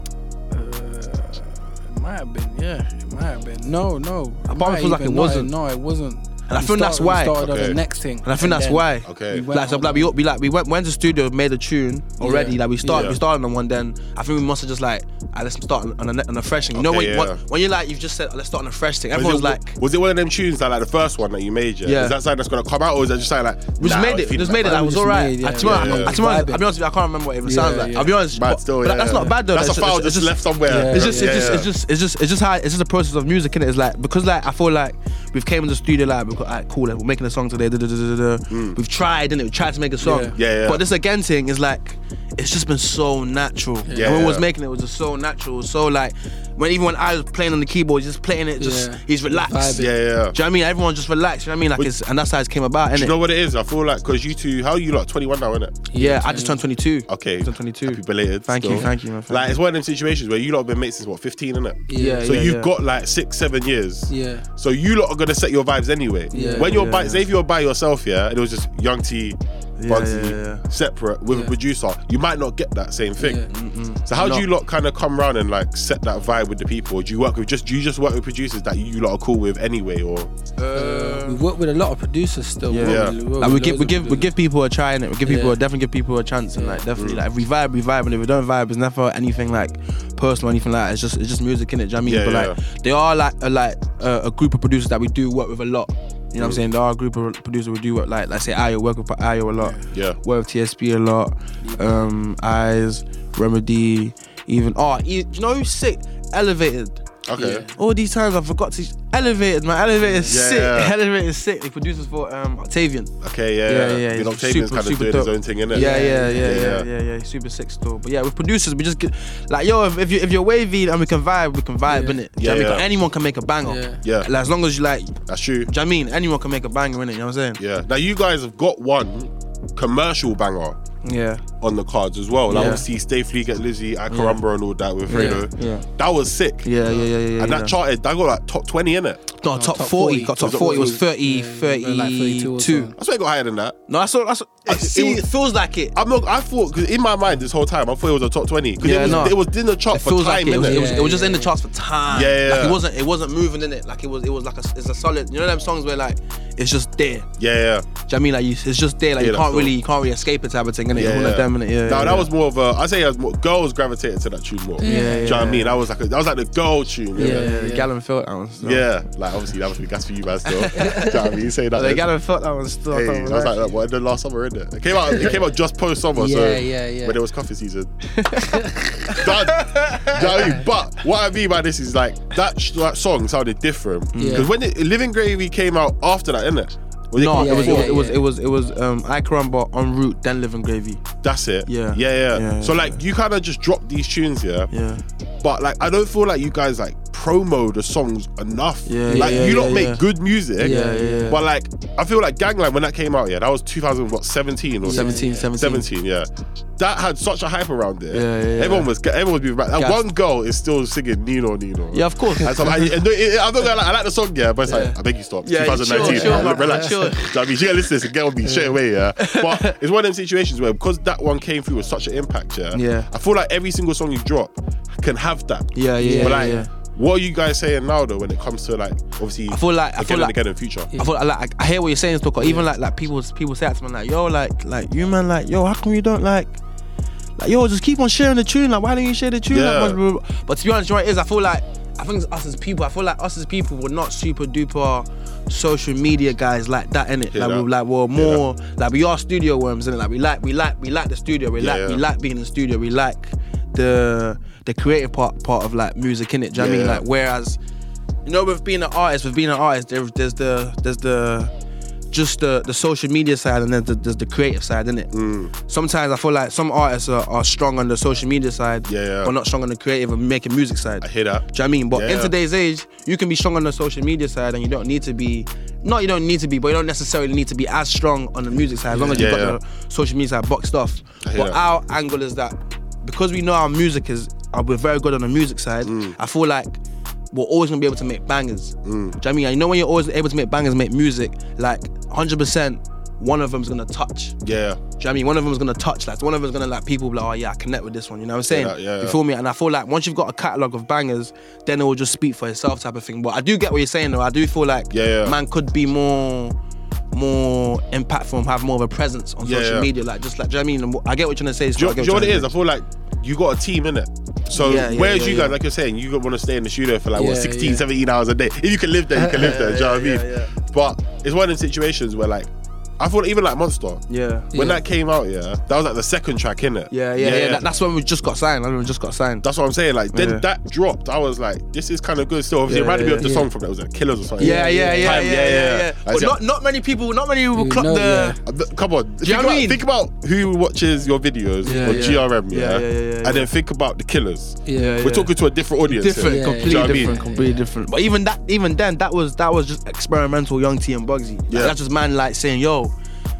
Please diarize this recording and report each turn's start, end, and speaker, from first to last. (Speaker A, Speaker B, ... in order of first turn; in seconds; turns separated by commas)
Speaker A: 0.5-10.2, Speaker B: 4.5-5.5, Speaker B: 6.5-7.4, Speaker C: 7.4-7.8, Speaker B: 8.2-19.8, Speaker C: 9.0-9.5, Speaker A: 12.2-12.8, Speaker C: 12.8-13.2, Speaker C: 16.7-17.4, Speaker C: 19.1-24.7, Speaker B: 21.8-22.2, Speaker B: 23.8-49.8, Speaker A: 24.4-26.6, Speaker C: 25.6-26.1, Speaker A: 27.4-28.1, Speaker C: 28.3-31.7, Speaker A: 30.7-31.6, Speaker C: 38.5-38.8, Speaker A: 40.0-40.4, Speaker C: 40.3-40.9, Speaker A: 43.8-44.2, Speaker C: 43.9-44.5, Speaker A: 48.6-49.9, Speaker C: 49.7-50.4, Speaker B: 50.3-53.1, Speaker C: 52.9-55.7, Speaker A: 55.9-56.7, Speaker B: 55.9-59.6, Speaker C: 57.1-73.4, Speaker A: 61.9-62.3, Speaker B: 61.9-62.7, Speaker A: 64.1-64.5, Speaker A: 66.3-66.9, Speaker B: 66.4-67.3, Speaker B: 69.8-70.6, Speaker A: 71.3-71.6, Speaker A: 73.2-73.5, Speaker B: 73.5-74.5, Speaker C: 74.0-80.3, Speaker B: 80.6-81.5, Speaker A: 80.7-84.3, Speaker B: 82.7-107.0, Speaker C: 82.7-83.2, Speaker A: 85.2-85.6, Speaker A: 86.5-86.8, Speaker C: 86.9-87.2, Speaker C: 92.0-92.6, Speaker C: 96.4-96.6, Speaker A: 99.6-99.9, Speaker C: 99.9-100.2, Speaker A: 101.6-102.0, Speaker C: 107.3-107.6, Speaker A: 107.4-107.8, Speaker B: 107.7-113.1, Speaker A: 110.0-110.4, Speaker C: 110.3-111.0, Speaker C: 113.2-116.9, Speaker B: 113.7-127.6, Speaker A: 115.7-116.7, Speaker A: 121.9-122.2, Speaker C: 122.4-122.9, Speaker A: 123.6-124.0, Speaker C: 124.0-124.3, Speaker C: 125.3-125.7, Speaker C: 127.6-130.8, Speaker B: 131.0-131.4, Speaker C: 131.6-139.2, Speaker B: 132.5-132.8, Speaker B: 134.1-134.4, Speaker B: 135.1-135.8, Speaker A: 135.1-135.5, Speaker B: 136.6-137.7, Speaker B: 139.3-142.9, Speaker A: 139.5-143.0, Speaker C: 140.4-141.0, Speaker C: 143.0-143.8, Speaker B: 143.9-145.9, Speaker C: 144.7-145.2, Speaker C: 145.9-150.9, Speaker B: 148.8-157.3, Speaker A: 149.0-149.3, Speaker A: 150.6-151.5, Speaker C: 152.1-152.8, Speaker C: 157.4-157.9, Speaker B: 158.1-162.3, Speaker C: 159.2-159.7, Speaker C: 160.9-167.4, Speaker A: 164.8-165.5, Speaker B: 164.8-165.8, Speaker A: 167.2-167.9, Speaker B: 167.2-168.9, Speaker C: 168.6-172.1, Speaker B: 170.5-170.9, Speaker A: 170.8-171.1, Speaker B: 171.7-173.8, Speaker C: 172.9-177.9, Speaker A: 175.1-175.4, Speaker A: 176.1-177.2, Speaker B: 178.1-178.6, Speaker A: 178.5-179.2, Speaker C: 179.1-188.0, Speaker B: 179.1-180.4, Speaker B: 184.1-184.5, Speaker A: 184.2-184.5, Speaker B: 187.1-191.0, Speaker A: 187.3-188.2, Speaker C: 191.2-194.7, Speaker B: 191.7-193.0, Speaker B: 194.7-195.0, Speaker C: 195.4-230.9, Speaker B: 198.8-200.1, Speaker A: 199.1-199.8, Speaker A: 200.6-201.4, Speaker B: 200.6-201.4, Speaker B: 204.8-205.9, Speaker A: 204.9-205.5, Speaker B: 208.1-208.9, Speaker B: 209.7-210.0, Speaker B: 211.9-212.9, Speaker B: 214.7-217.3, Speaker A: 215.9-217.2, Speaker A: 218.4-218.8, Speaker B: 219.2-219.7, Speaker B: 222.7-223.1, Speaker B: 225.7-226.7, Speaker A: 226.0-226.6, Speaker B: 229.5-236.6, Speaker B: 237.4-257.6, Speaker C: 239.4-240.0, Speaker C: 247.3-248.4, Speaker C: 251.6-252.0, Speaker C: 256.5-257.0, Speaker B: 258.2-261.5, Speaker B: 262.1-265.1, Speaker C: 265.1-265.5, Speaker B: 265.7-286.8, Speaker C: 268.8-269.3, Speaker C: 271.0-272.3, Speaker A: 278.9-279.3, Speaker C: 279.1-279.6, Speaker C: 281.2-281.6, Speaker C: 285.8-286.1, Speaker B: 287.3-294.4, Speaker C: 288.8-289.2, Speaker C: 294.4-294.8, Speaker B: 295.0-306.6, Speaker C: 298.5-299.2, Speaker C: 304.9-305.4, Speaker B: 307.1-312.5, Speaker C: 309.4-309.9, Speaker C: 311.7-324.0, Speaker B: 314.5-315.6, Speaker A: 317.1-317.9, Speaker A: 319.1-319.5, Speaker B: 319.4-320.5, Speaker B: 324.1-324.8, Speaker C: 324.5-327.6, Speaker B: 326.9-329.5, Speaker C: 329.4-336.4, Speaker B: 330.1-330.4, Speaker B: 332.6-333.3, Speaker A: 333.2-333.5, Speaker A: 334.4-335.4, Speaker B: 334.4-338.4, Speaker A: 337.5-338.4, Speaker C: 338.4-347.2, Speaker B: 339.2-339.9, Speaker A: 341.6-342.3, Speaker B: 341.7-343.5, Speaker A: 344.6-345.0, Speaker B: 344.7-352.9, Speaker A: 346.2-347.7, Speaker C: 351.5-351.8